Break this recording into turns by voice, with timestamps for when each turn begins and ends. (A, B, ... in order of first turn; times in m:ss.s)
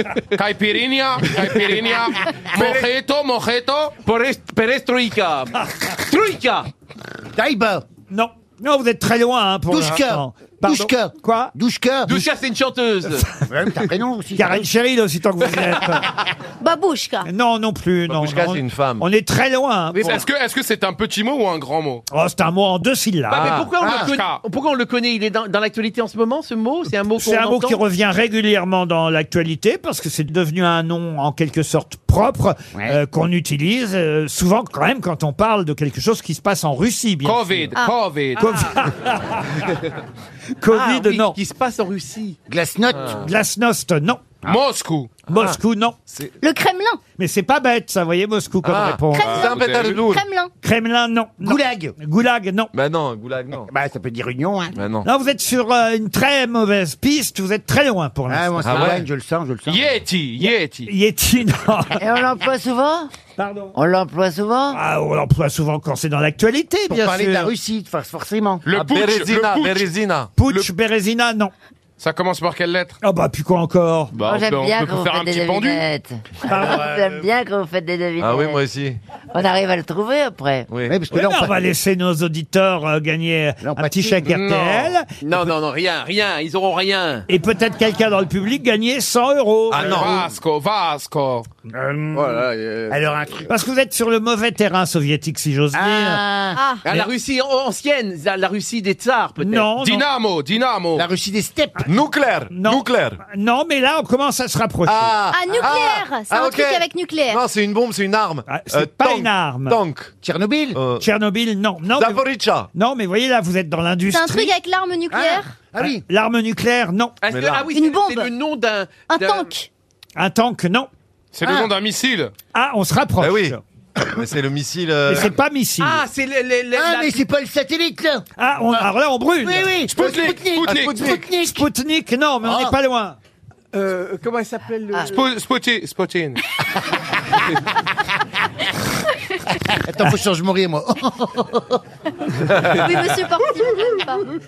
0:00.3-0:04.0 A
0:02.5-0:02.9 B
0:04.0-0:06.7 B
0:07.3-0:07.8 C
0:08.1-0:11.5 D
0:09.7-0:12.3 C
0:12.0-0:13.2 B
0:13.5-0:14.6 C
0:14.3-0:16.0 D
0:16.6-0:17.3 E
0:17.2-0:20.2 D
0:18.1-0:19.0 F
0:19.9-0:20.2 B
0:20.0-0:22.0 A
0:22.1-0:23.6 D
0:23.3-0:27.8 B
0:23.4-0:23.7 F
0:23.8-0:24.1 C
0:23.8-0:24.4 A
0:27.1-0:37.7 D
0:37.2-0:38.7 A
0:38.4-0:39.5 D
0:40.6-0:41.4 D
0:40.7-0:42.4 B
0:42.5-0:43.3 C
0:43.2-0:44.3 D
0:44.4-0:45.1 A
0:45.3-0:46.0 D
0:46.4-0:47.0 E
0:47.2-0:49.6 D
0:48.6-0:50.2 F
0:49.1-0:50.5 E
0:49.6-0:49.9 A
0:50.6-0:52.7 D
0:51.4-0:51.9 C
0:52.7-0:53.7 F
0:53.7-0:54.8 C
0:54.8-0:55.0 F
0:55.0-0:59.0 D
0:58.3-0:59.9 C
0:58.6-0:59.0 F
0:59.7-1:00.9 A
1:00.4-1:02.0 D
1:02.0-1:03.1 G
1:03.4-1:03.7 D
1:03.7-1:04.8 G
1:04.7-1:07.5 D
1:06.9-1:08.6 C
1:08.6-1:09.9 A
1:08.7-1:10.3 F
1:10.4-1:11.5 D
1:12.0-1:13.0 A
1:13.0-1:14.1 D
1:14.1-1:15.8 A
1:14.2-1:18.6 G
1:16.4-1:16.8 D
1:16.5-1:17.1 C
1:16.6-1:17.1 F
1:18.2-1:19.0 F
1:19.3-1:20.7 G
1:20.7-1:21.0 F
1:20.9-1:21.6 C
1:21.1-1:25.5 D
1:23.6-1:24.3 C
1:24.3-1:24.9 A
1:25.2-1:27.2 B
1:27.3-1:30.1 D
1:29.7-1:30.2 F
1:29.8-1:31.5 A
1:31.7-1:33.5 C
1:32.1-1:33.0 B
1:33.5-1:36.2 D
1:35.7-1:36.6 C
1:36.6-1:36.8 E
1:36.8-1:39.7 B
1:39.4-1:40.0 D
1:39.8-1:41.1 A
1:41.0-1:41.9 C
1:41.8-1:43.2 F
1:42.5-1:45.1 D
1:44.8-1:50.1 F
1:45.3-1:47.4 E
1:48.5-1:49.8 D
1:50.2-1:50.8 C
1:50.7-1:51.0 F
1:51.0-1:54.5 D
1:52.0-1:52.7 F
1:54.1-1:55.5 E
1:55.1-1:56.0 C
1:55.8-1:57.2 D
1:57.2-1:59.5 B
1:57.3-1:57.7 F
1:57.7-1:58.3 E
1:59.1-1:59.7 E
2:00.2-2:00.9 D
2:01.3-2:02.3 A
2:01.4-2:01.7 C
2:02.5-2:03.6 D
2:03.2-2:05.3 F
2:05.1-2:06.0 D
2:05.8-2:07.2 B
2:06.7-2:08.8 C
2:08.4-2:09.8 D
2:09.4-2:11.7 C
2:09.9-2:11.2 A
2:11.4-2:13.2 D
2:12.4-2:12.7 C
2:13.7-2:15.2 B
2:15.1-2:16.4 A
2:19.7-2:21.8 C
2:22.6-2:24.2 E